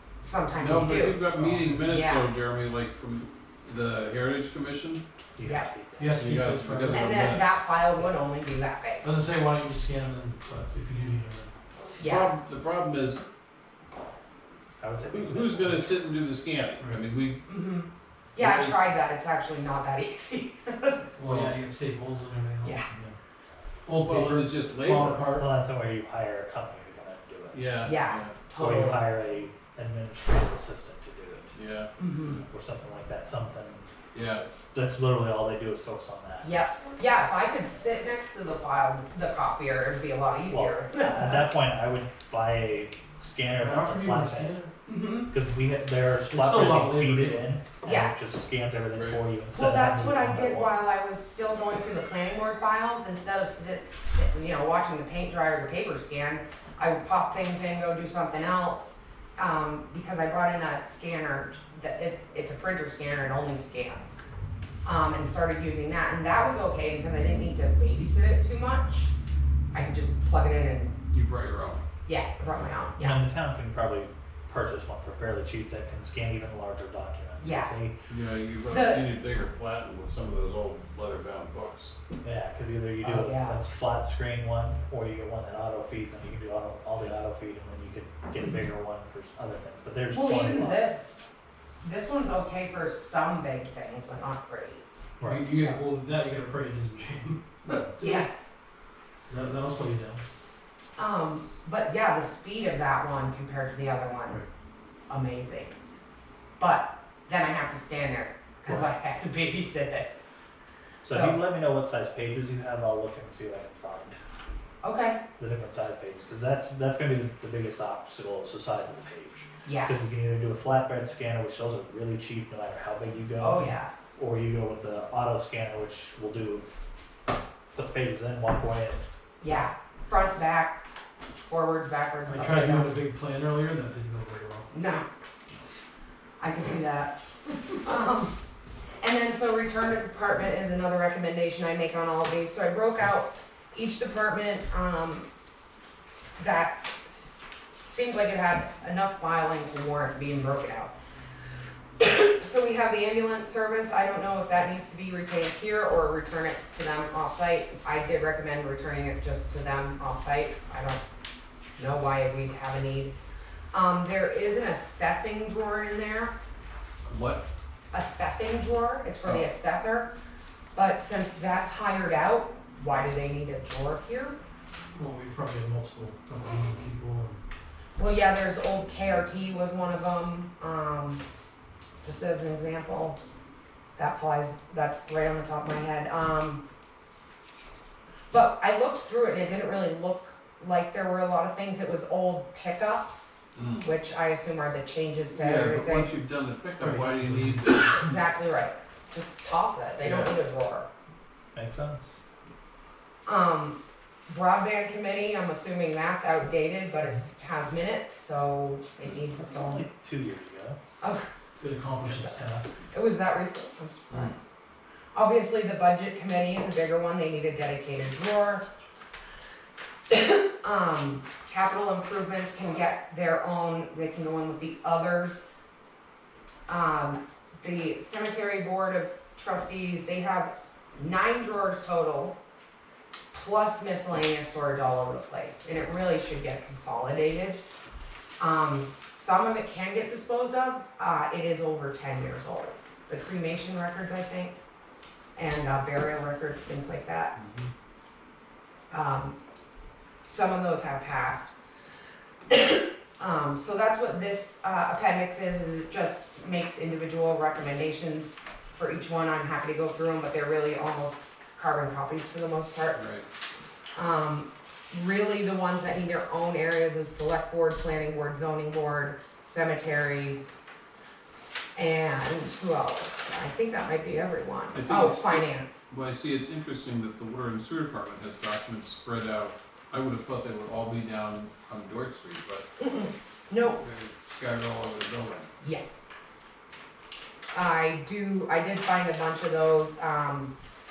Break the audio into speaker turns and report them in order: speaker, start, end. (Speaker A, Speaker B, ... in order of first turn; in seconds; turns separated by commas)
Speaker A: 0.2-1.2, Speaker B: 0.6-5.0, Speaker C: 0.6-1.8, Speaker A: 1.9-2.3, Speaker D: 5.3-6.3, Speaker A: 5.4-5.7, Speaker C: 6.0-7.3, Speaker B: 6.1-7.6, Speaker A: 6.9-9.1, Speaker C: 9.0-11.5, Speaker A: 12.0-12.3, Speaker B: 12.0-13.2, Speaker D: 14.8-16.0, Speaker B: 15.1-17.4, Speaker A: 17.5-21.1, Speaker B: 18.4-18.8, Speaker C: 21.2-23.1, Speaker B: 21.2-21.5, Speaker C: 23.9-25.5, Speaker B: 24.0-25.2, Speaker D: 25.3-27.6, Speaker B: 27.5-28.3, Speaker A: 27.8-29.1, Speaker D: 28.6-31.5, Speaker B: 31.5-31.9, Speaker A: 32.0-32.4, Speaker D: 32.4-33.9, Speaker B: 34.1-34.4, Speaker D: 34.7-36.7, Speaker A: 36.4-41.5, Speaker D: 40.5-44.6, Speaker C: 43.5-44.7, Speaker A: 44.9-45.3, Speaker D: 45.3-50.7, Speaker C: 46.3-47.5, Speaker A: 47.8-48.1, Speaker A: 49.5-64.2, Speaker A: 64.8-69.1, Speaker A: 69.7-71.0, Speaker B: 71.1-71.8, Speaker A: 72.0-73.3, Speaker D: 73.0-77.9, Speaker A: 77.4-77.7, Speaker B: 78.1-81.9, Speaker A: 78.7-79.1, Speaker D: 82.2-91.0, Speaker A: 83.0-83.6, Speaker A: 90.1-91.2, Speaker A: 91.8-94.8, Speaker D: 95.2-95.5, Speaker C: 95.2-98.2, Speaker A: 97.7-98.3, Speaker C: 99.3-100.2, Speaker A: 101.0-104.4, Speaker A: 105.1-105.7, Speaker A: 106.6-110.1, Speaker D: 111.0-114.2, Speaker A: 111.0-111.4, Speaker A: 114.8-115.2, Speaker D: 115.4-126.6, Speaker A: 119.6-119.9, Speaker A: 123.4-123.9, Speaker D: 127.7-129.1, Speaker A: 129.4-130.8, Speaker A: 131.5-132.9, Speaker C: 132.2-134.7, Speaker A: 134.7-135.1, Speaker A: 136.4-138.3, Speaker A: 139.0-145.3, Speaker A: 146.4-147.3, Speaker A: 147.8-150.9, Speaker A: 152.0-161.0, Speaker A: 161.8-163.1, Speaker A: 163.7-166.3, Speaker B: 167.1-167.5, Speaker A: 167.9-170.1, Speaker A: 170.7-174.3, Speaker C: 174.9-177.4, Speaker A: 178.0-181.2, Speaker A: 182.0-183.2, Speaker A: 183.9-186.6, Speaker A: 188.3-196.1, Speaker B: 193.5-193.9, Speaker B: 195.3-198.0, Speaker C: 196.8-197.8, Speaker A: 197.9-200.9, Speaker B: 200.0-200.3, Speaker D: 201.5-202.2, Speaker A: 203.2-209.9, Speaker D: 209.4-210.8, Speaker A: 211.0-211.3, Speaker C: 211.6-212.8, Speaker A: 212.0-212.3, Speaker A: 212.9-214.5, Speaker A: 215.1-218.7, Speaker A: 220.1-225.6, Speaker A: 226.7-232.3, Speaker A: 233.3-237.6, Speaker A: 238.4-244.6, Speaker A: 245.3-247.3, Speaker B: 247.3-247.7, Speaker A: 248.9-249.3, Speaker A: 250.2-251.5, Speaker A: 252.5-263.0, Speaker B: 262.9-263.2, Speaker A: 263.9-270.5, Speaker A: 271.7-275.9, Speaker B: 274.7-282.7, Speaker A: 282.8-283.8, Speaker B: 283.6-285.5, Speaker A: 287.5-290.5